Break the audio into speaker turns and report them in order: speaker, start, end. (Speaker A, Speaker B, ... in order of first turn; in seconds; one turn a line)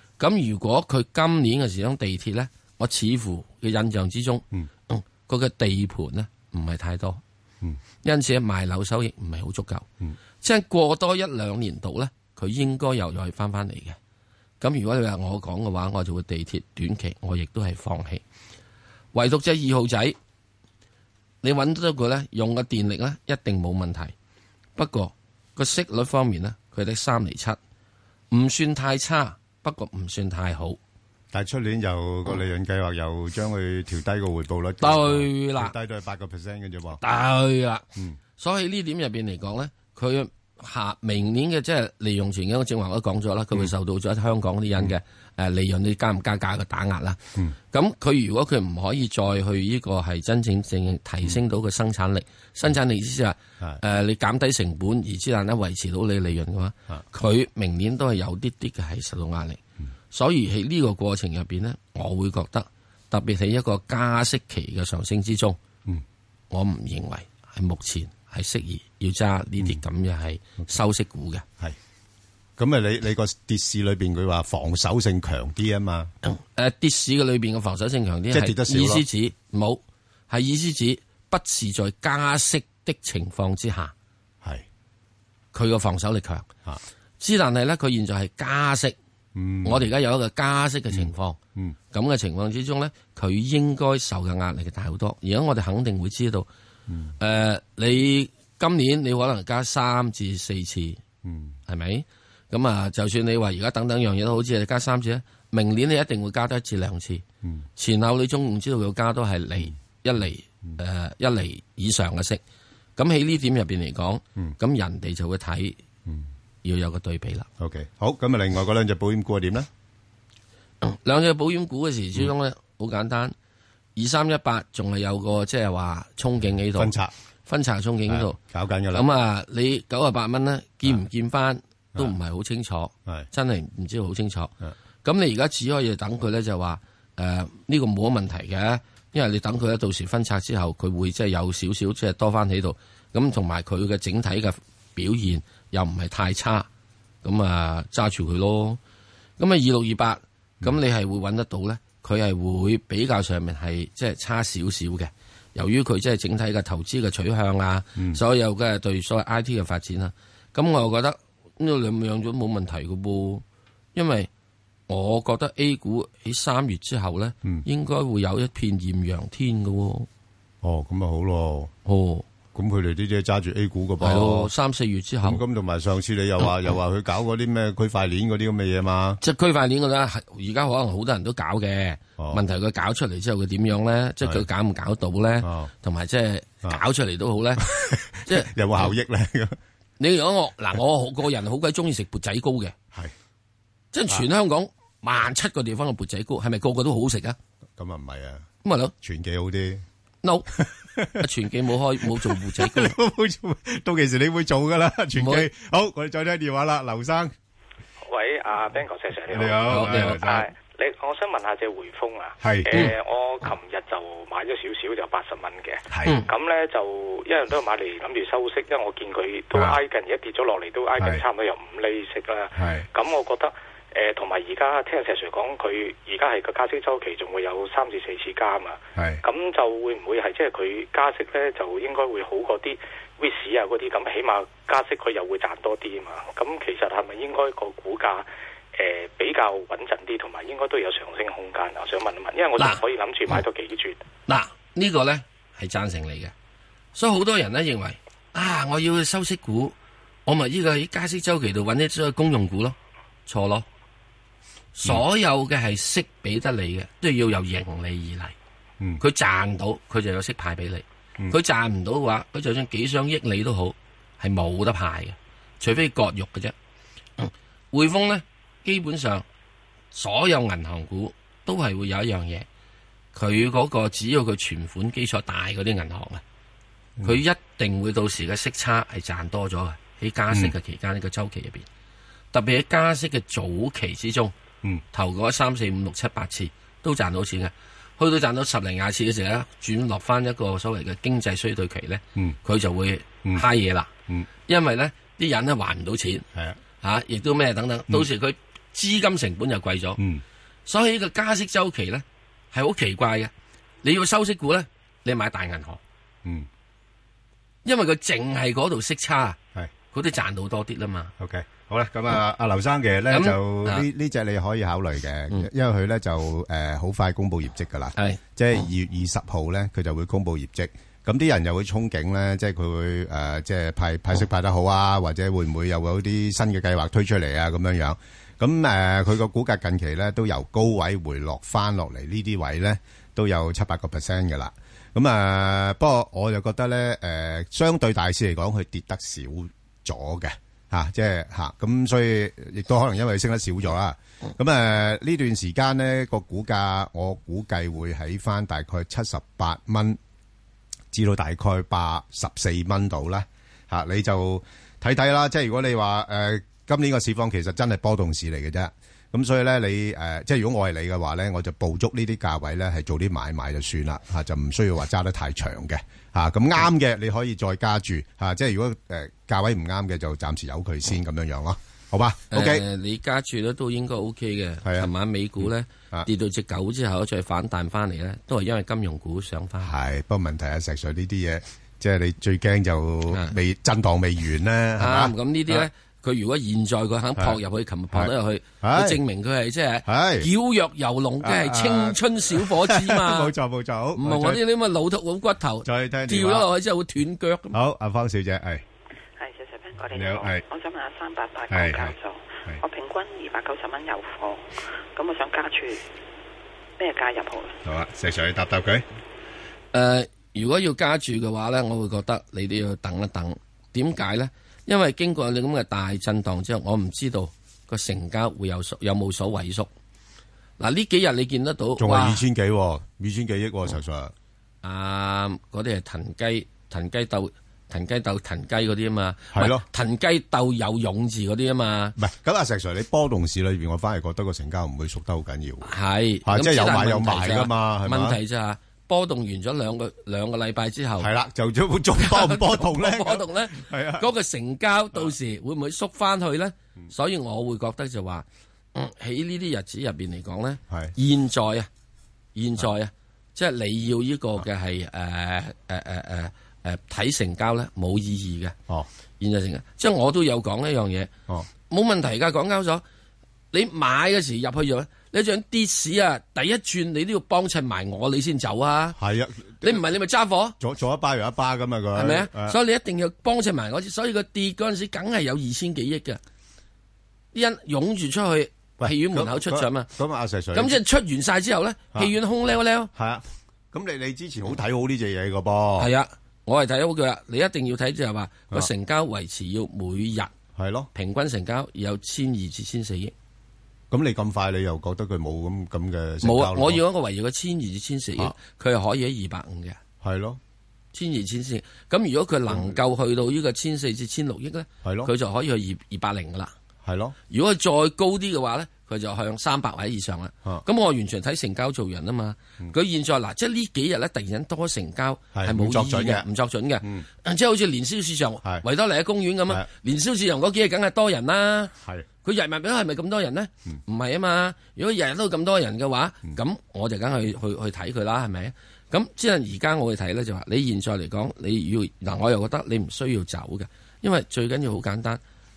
Speaker A: 0.2-7.2
Speaker A: 8.0-9.9
Speaker A: 10.4-14.0
Speaker A: 14.6-18.2
Speaker A: 19.1-20.2
Speaker A: 21.4-24.1
Speaker A: 24.8-27.6
Speaker A: 28.3-30.8
Speaker B: 31.3-37.0
Speaker A: 34.8-35.7
Speaker A: 37.0-37.8
Speaker A: 38.4-65.6
Speaker A: 66.5-71.5
Speaker B: 72.6-76.1
Speaker A: 76.2-83.9
Speaker B: 78.3-79.0
Speaker A: 85.5-86.5
Speaker A: 87.2-89.0
Speaker B: 89.3-89.9
Speaker A: 89.6-91.4
Speaker B: 90.9-91.8
Speaker A: 91.9-96.5
Speaker B: 96.9-97.2
Speaker A: 97.2-101.0
Speaker B: 101.2-101.6
Speaker A: 101.7-107.2
Speaker A: 107.8-112.4
Speaker A: 113.0-115.8
Speaker A: 116.6-117.5
Speaker B: 117.6-119.7
Speaker A: 120.8-123.3
Speaker A: 124.0-127.0
Speaker B: 126.8-127.1
Speaker A: 127.5-128.4
Speaker B: 128.1-129.1
Speaker A: 128.9-146.7
Speaker A: 147.2-148.8
Speaker A: 149.4-163.4
Speaker A: 163.9-164.3
Speaker A: 164.9-170.1
Speaker B: 170.6-171.7
Speaker A: 171.8-172.3
Speaker B: 172.5-174.5
Speaker A: 174.0-175.4
Speaker B: 175.2-179.2
Speaker A: 179.2-187.7
Speaker B: 185.4-185.7
Speaker B: 187.6-189.6
Speaker A: 188.2-188.9
Speaker A: 190.0-192.8
Speaker A: 193.9-197.4
Speaker B: 197.8-198.5
Speaker A: 198.6-198.9
Speaker B: 199.0-199.8
Speaker A: 200.2-200.5
Speaker B: 200.6-201.3
Speaker A: 201.2-202.9
Speaker B: 202.0-207.3
Speaker A: 205.2-205.5
Speaker C: 208.1-244.0
Speaker B: 209.3-210.5
Speaker A: 209.6-210.2
Speaker B: 212.4-212.9
Speaker B: 215.9-216.2
Speaker B: 219.5-219.8
Speaker B: 222.6-222.9
Speaker B: 229.0-229.2
Speaker A: 242.6-243.4
Speaker A: 244.3-246.3
Speaker A: 246.9-249.8
Speaker A: 250.3-252.8
Speaker A: 253.3-253.7
Speaker A: 254.8-258.4
Speaker A: 259.0-266.6
Speaker A: 267.2-269.3
Speaker A: 269.9-272.5
Speaker A: 273.1-276.2
Speaker A: 277.0-281.7
Speaker A: 282.3-284.3
Speaker A: 284.9-293.9
Speaker A: 294.5-296.3
Speaker B: 296.3-296.6
Speaker A: 296.8-300.0
Speaker B: 300.0-300.2
Speaker A: 300.7-303.3
Speaker A: 303.8-305.8
Speaker A: 307.6-309.4
Speaker A: 309.9-311.1
Speaker B: 311.2-350.0
Speaker A: 313.1-313.9
Speaker B: 350.9-372.6
Speaker A: 372.3-379.7
Speaker B: 374.6-374.9
Speaker B: 375.4-376.1
Speaker B: 379.6-385.7
Speaker A: 383.1-383.4
Speaker A: 384.8-393.3
Speaker B: 387.9-389.0
Speaker B: 389.9-390.3
Speaker B: 391.2-394.4
Speaker A: 394.0-397.6
Speaker B: 395.6-396.5
Speaker B: 397.5-398.6
Speaker D: 399.2-405.8
Speaker B: 399.9-400.4
Speaker B: 401.5-401.9
Speaker D: 406.8-407.6
Speaker B: 407.6-408.9
Speaker A: 409.7-419.7
Speaker A: 420.6-422.2
Speaker B: 421.8-424.1
Speaker A: 424.6-432.0
Speaker B: 429.3-429.6
Speaker B: 432.0-435.7
Speaker A: 435.6-441.1
Speaker B: 436.2-438.2
Speaker B: 441.0-444.1
Speaker A: 442.0-451.7
Speaker A: 452.4-458.6
Speaker A: 459.2-461.1
Speaker A: 461.7-462.8
Speaker A: 463.5-469.0
Speaker B: 469.0-469.8
Speaker A: 469.6-470.6
Speaker B: 470.6-472.6
Speaker A: 471.9-476.2
Speaker A: 477.3-479.9
Speaker B: 478.8-480.8
Speaker A: 480.5-482.9
Speaker B: 482.9-485.9
Speaker A: 485.8-490.3
Speaker B: 490.6-490.9
Speaker A: 490.9-493.1
Speaker B: 493.9-496.8
Speaker A: 496.2-499.8
Speaker B: 500.0-500.4
Speaker A: 500.9-506.5
Speaker B: 504.8-505.1
Speaker B: 506.8-507.2
Speaker A: 507.3-535.2
Speaker B: 515.3-516.2
Speaker B: 521.8-522.1